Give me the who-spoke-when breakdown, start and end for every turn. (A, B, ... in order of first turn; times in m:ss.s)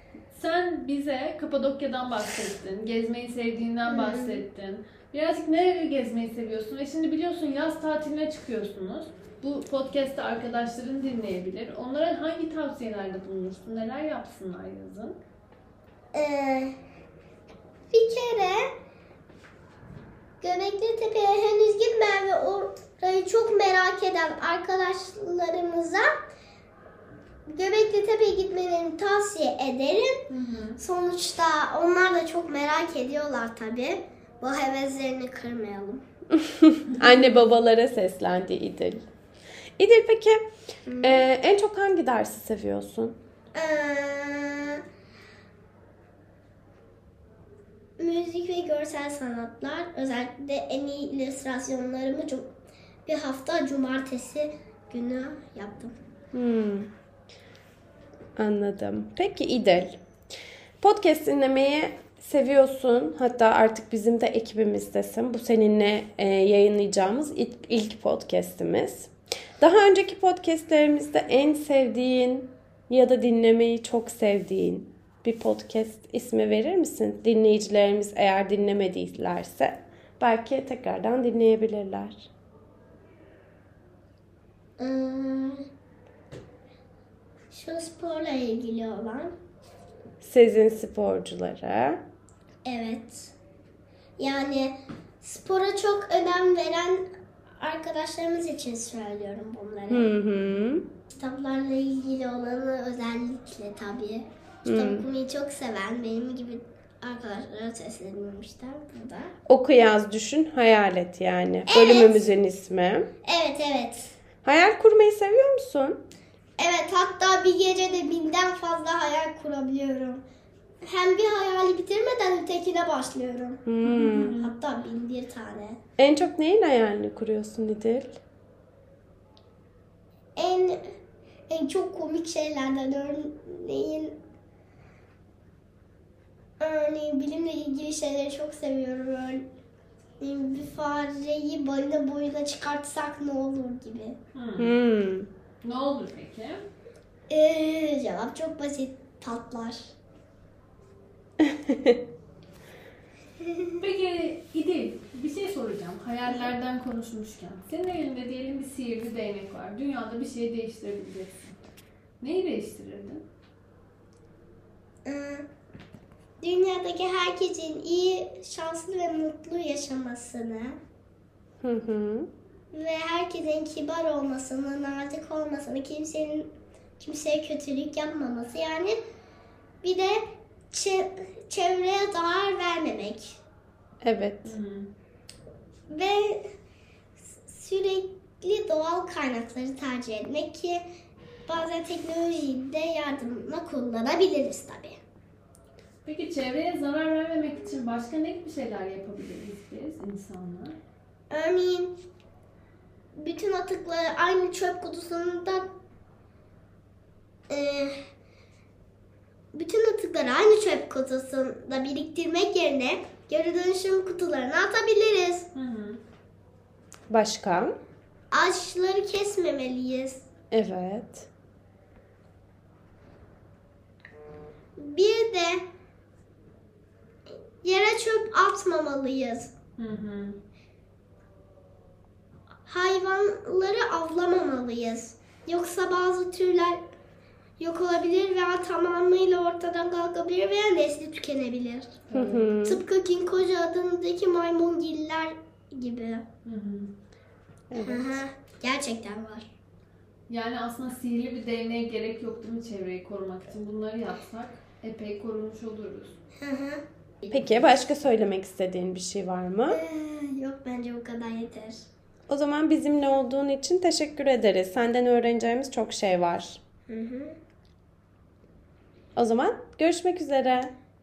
0:00.3-0:15.2 A
0:03.9-0:04.4 B
0:16.1-0:16.8 B
0:17.9-0:18.7 B
0:20.4-0:26.1 B
0:27.4-0:30.2 B
0:30.3-0:30.8 A
0:30.8-0:36.0 B
0:36.4-0:39.0 C
0:39.8-0:40.4 C
0:40.8-0:41.2 B
0:41.0-0:43.2 C
0:43.6-0:44.8 B
0:48.0-0:52.5 B
0:53.1-0:55.9 B
0:56.3-0:56.9 C
0:58.4-1:00.0 C
1:00.8-1:22.3 C
1:24.8-1:25.6 B
1:27.5-1:29.3 B
1:30.2-1:32.0 C
1:32.6-1:33.3 B
1:34.2-1:40.1 B
1:39.9-1:40.8 C
1:41.1-1:49.3 B
1:44.6-1:45.0 C
1:49.5-1:53.1 C
1:51.7-1:52.3 B
1:53.2-1:54.1 B
1:54.4-1:56.0 C
1:56.6-2:00.2 B
2:00.8-2:03.6 B
2:03.7-2:04.4 C
2:03.8-2:04.5 A
2:04.3-2:05.8 B
2:06.0-2:08.2 C
2:10.4-2:10.8 B
2:11.5-2:14.2 B
2:16.6-2:19.5 B
2:20.2-2:24.2 B
2:24.3-2:24.8 A
2:24.6-2:25.3 C
2:25.6-2:26.6 A
2:27.3-2:29.9 B
2:31.4-2:32.0 C
2:33.4-2:33.7 B
2:33.8-2:41.6 A
2:42.2-2:43.2 A
2:45.0-2:45.5 B
2:46.4-2:50.8 B
2:51.6-2:52.3 C
2:52.7-2:59.0 B
2:59.8-3:03.4 B
3:04.0-3:04.6 C
3:04.4-3:04.9 A
3:05.9-3:06.4 B
3:07.4-3:10.8 B
3:11.5-3:15.0 B
3:16.0-3:20.8 A
3:21.3-3:21.9 B
3:23.2-3:25.7 B
3:27.5-3:28.0 B
3:29.5-3:35.5 B
3:35.6-3:36.0 A
3:37.1-3:37.8 C
3:38.3-3:40.3 B
3:40.5-3:41.3 C
3:44.8-3:45.6 B
3:47.6-3:49.5 B
3:49.8-3:50.4 A
3:52.7-3:56.8 B
3:57.6-4:02.0 B
4:02.1-4:02.5 A
4:02.1-4:02.8 C
4:02.6-4:06.2 B
4:06.4-4:06.9 A
4:07.7-4:08.2 C
4:07.7-4:09.5 B
4:10.3-4:16.2 A
4:16.4-4:17.3 B
4:17.3-4:19.8 C
4:19.7-4:21.8 B
4:22.3-4:26.6 C
4:26.9-4:27.4 B
4:29.2-4:30.7 C